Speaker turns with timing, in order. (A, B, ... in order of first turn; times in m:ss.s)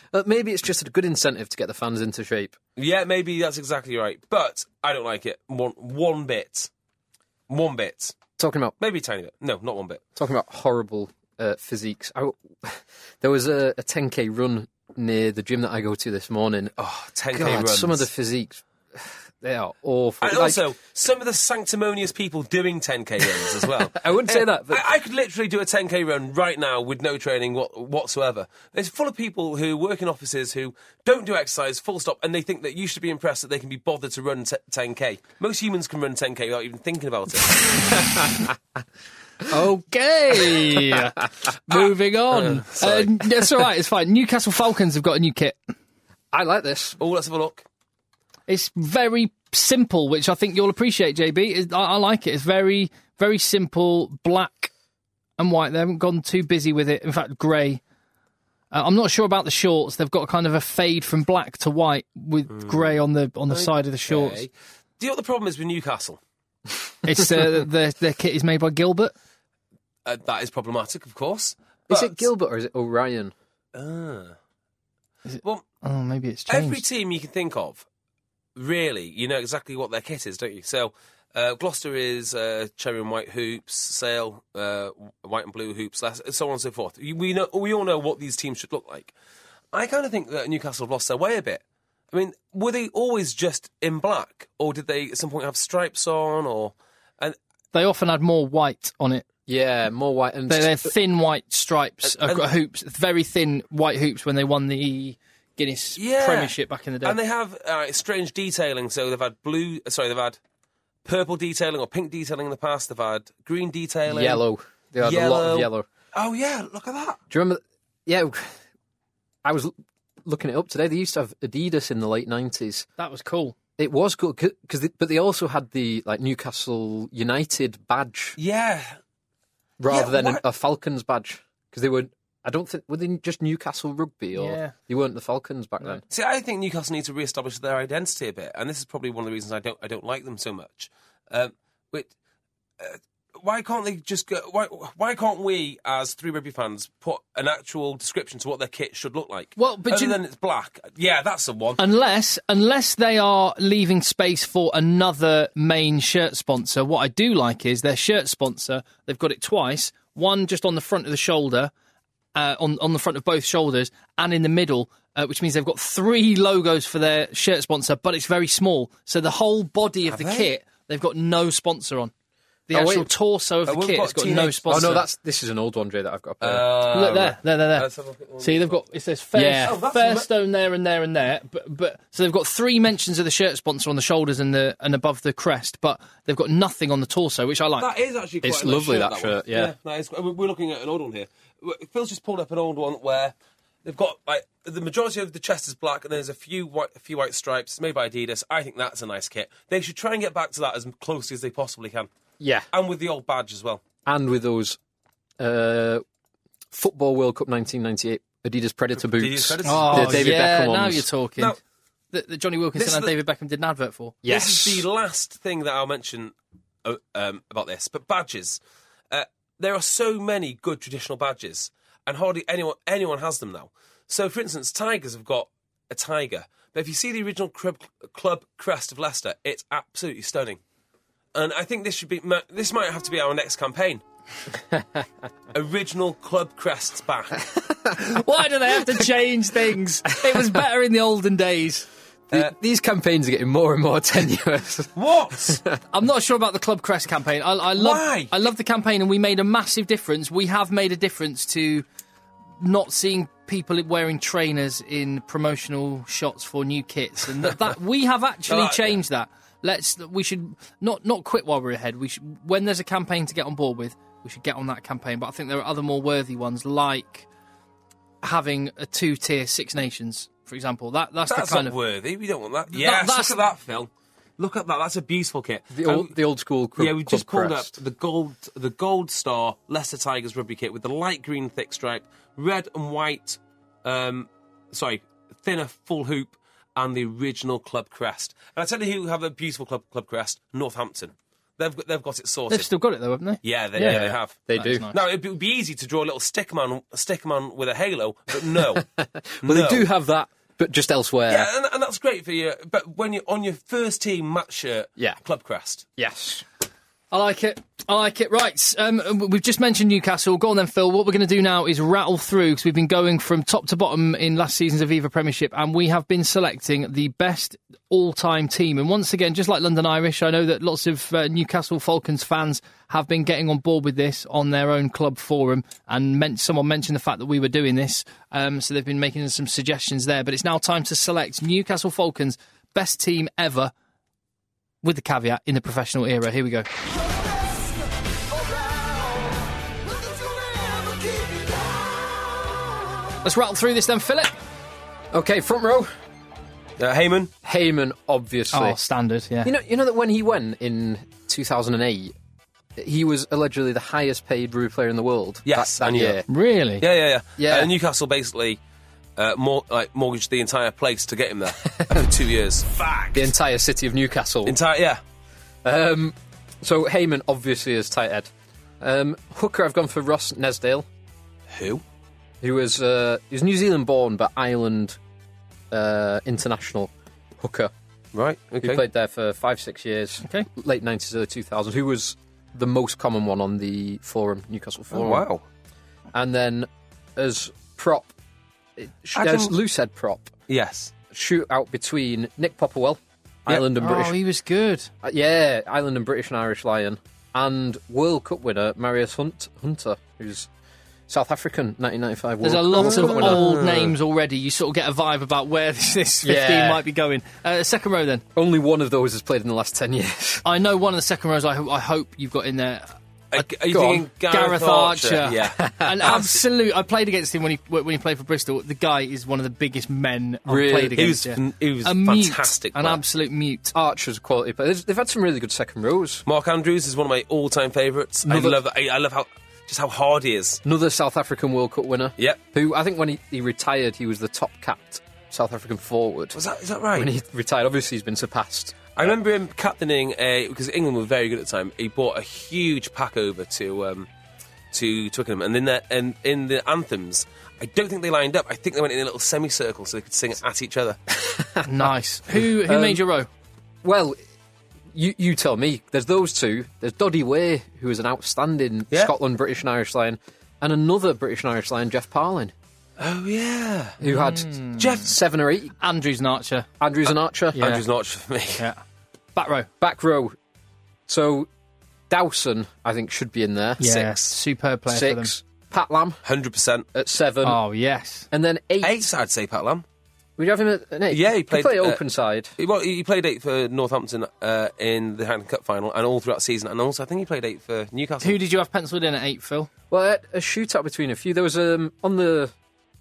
0:00.1-0:02.6 A
0:02.8-0:06.7 B
0:07.5-0:08.2 B
0:08.4-0:08.8 A
0:08.8-0:10.0 B
0:10.2-0:16.8 A
0:16.8-0:18.1 B
0:17.3-0:20.6 A
0:20.2-0:38.0 B
0:23.6-0:24.8 A
0:37.7-0:38.4 A
0:39.5-0:45.6 C
0:41.7-0:43.2 B
0:46.3-0:47.0 A
0:47.0-0:47.7 B
0:48.5-0:54.7 C
0:55.4-0:57.8 C
0:58.7-1:04.4 C
1:02.5-1:02.9 B
1:03.5-1:06.2 B
1:07.0-1:09.1 C
1:10.0-1:12.3 B
1:11.9-1:13.3 A
1:13.8-1:14.4 B
1:15.3-1:16.8 C
1:16.5-1:17.8 B
1:18.6-1:29.1 B
1:29.7-1:37.4 B
1:37.7-1:39.3 C
1:39.5-1:40.9 A
1:40.5-1:47.2 C
1:42.2-1:42.5 B
1:46.0-1:50.4 B
1:51.0-1:54.4 B
1:54.1-1:55.9 A
1:55.0-1:57.2 B
1:57.3-1:58.6 A
1:59.4-1:59.7 A
2:00.2-2:02.9 A
2:03.0-2:03.6 C
2:03.8-2:08.4 A
2:08.4-2:09.0 B
2:09.8-2:16.0 A
2:09.9-2:10.4 B
2:14.4-2:14.8 C
2:16.1-2:22.1 B
2:22.8-2:31.8 B
2:29.6-2:30.2 C
2:31.8-2:41.7 C
2:42.4-2:52.1 C
2:50.1-2:50.5 B
2:52.7-2:55.1 C
2:52.7-2:53.1 A
2:53.7-2:55.0 B
2:54.7-2:56.7 A
2:56.4-2:58.8 B
2:56.9-2:57.9 C
2:58.4-3:07.9 C
2:59.4-2:59.8 A
2:59.6-3:00.3 B
3:07.8-3:13.3 B
3:08.4-3:09.7 A
3:13.8-3:22.1 B
3:22.4-3:22.7 A
3:22.7-3:23.8 B
3:24.1-3:24.8 A
3:25.4-3:26.0 A
3:26.7-3:31.1 A
3:29.0-3:30.4 B
3:29.6-3:31.6 C
3:32.1-3:34.2 C
3:32.8-3:33.1 B
3:34.2-3:34.9 A
3:34.3-3:38.6 B
3:39.1-3:50.6 B
3:51.3-3:54.0 B
3:55.5-3:57.5 B
3:58.0-4:01.9 C
4:02.3-4:05.8 A
4:05.0-4:05.6 B
4:05.9-4:11.8 C
4:07.8-4:08.3 B
4:12.6-4:27.3 C
4:18.5-4:19.0 B
4:28.2-4:31.7 C
4:31.3-4:36.1 B
4:32.7-4:33.4 C
4:35.7-4:37.7 A
4:36.8-4:52.7 B
4:52.5-4:55.0 C
4:53.4-4:58.8 B
4:54.5-4:54.9 A
4:58.7-5:01.5 A
4:59.4-4:59.9 B
5:01.3-5:05.9 B
5:06.0-5:06.4 A
5:07.1-5:33.7 C
5:34.8-5:36.7 C
5:43.2-5:44.3 C
5:45.1-5:45.9 A
5:46.8-5:47.3 B
5:47.4-5:48.8 A
5:48.5-5:49.5 C
5:49.4-5:52.2 A
5:52.8-5:56.2 A
5:55.5-5:56.2 B
5:56.3-5:56.8 C
5:56.8-5:58.6 B
5:57.4-5:57.7 A
5:59.2-6:03.3 B
6:01.8-6:02.0 A
6:03.1-6:04.6 A
6:04.4-6:05.0 B
6:05.6-6:10.9 A
6:11.5-6:11.8 B
6:12.4-6:15.0 A
6:15.7-6:17.7 A
6:18.1-6:18.8 B
6:18.6-6:25.3 A
6:24.9-6:25.4 B
6:26.1-6:28.1 A
6:28.8-6:30.3 A
6:29.2-6:29.5 B
6:30.5-6:30.9 B
6:31.1-6:34.2 A
6:33.5-6:34.9 C
6:35.0-6:40.5 A
6:41.1-6:43.5 A
6:42.4-6:48.2 C
6:42.8-6:43.9 B
6:46.2-6:46.8 A
6:48.4-6:50.4 A
6:50.4-6:53.5 C
6:53.3-6:56.3 B
6:53.7-6:54.0 A
6:54.2-7:03.7 C
6:55.6-6:56.2 A
7:00.5-7:01.1 A
7:01.0-7:03.0 B
7:03.7-7:06.2 A
7:06.3-7:10.6 B
7:08.3-7:08.6 A
7:10.6-7:16.4 A
7:16.3-7:17.1 B
7:17.0-7:19.1 A
7:19.0-7:24.1 B
7:24.7-7:31.0 B
7:31.1-7:31.7 A
7:31.6-7:33.3 C
7:32.5-7:33.0 A
7:33.8-7:34.2 A
7:34.9-7:42.5 A
7:43.0-7:44.0 B
7:44.0-7:45.7 A
7:44.0-7:45.1 C
7:45.8-7:46.7 C
7:46.8-7:47.6 A
7:47.5-7:47.8 C
7:47.6-7:48.6 B
7:48.6-7:48.8 C
7:49.4-7:49.7 C
7:49.8-7:50.4 A
7:51.1-7:51.5 A
7:52.1-7:54.0 A
7:53.8-7:55.3 C
7:53.8-7:54.3 B
7:54.9-7:56.2 A
7:56.2-7:56.9 B
7:56.9-7:57.6 A
7:57.4-7:58.3 C
7:58.3-7:59.1 A
7:58.8-7:59.8 B
8:00.4-8:02.5 A
8:01.1-8:02.0 B
8:02.6-8:08.4 B
8:08.2-8:09.7 C
8:09.9-8:12.5 A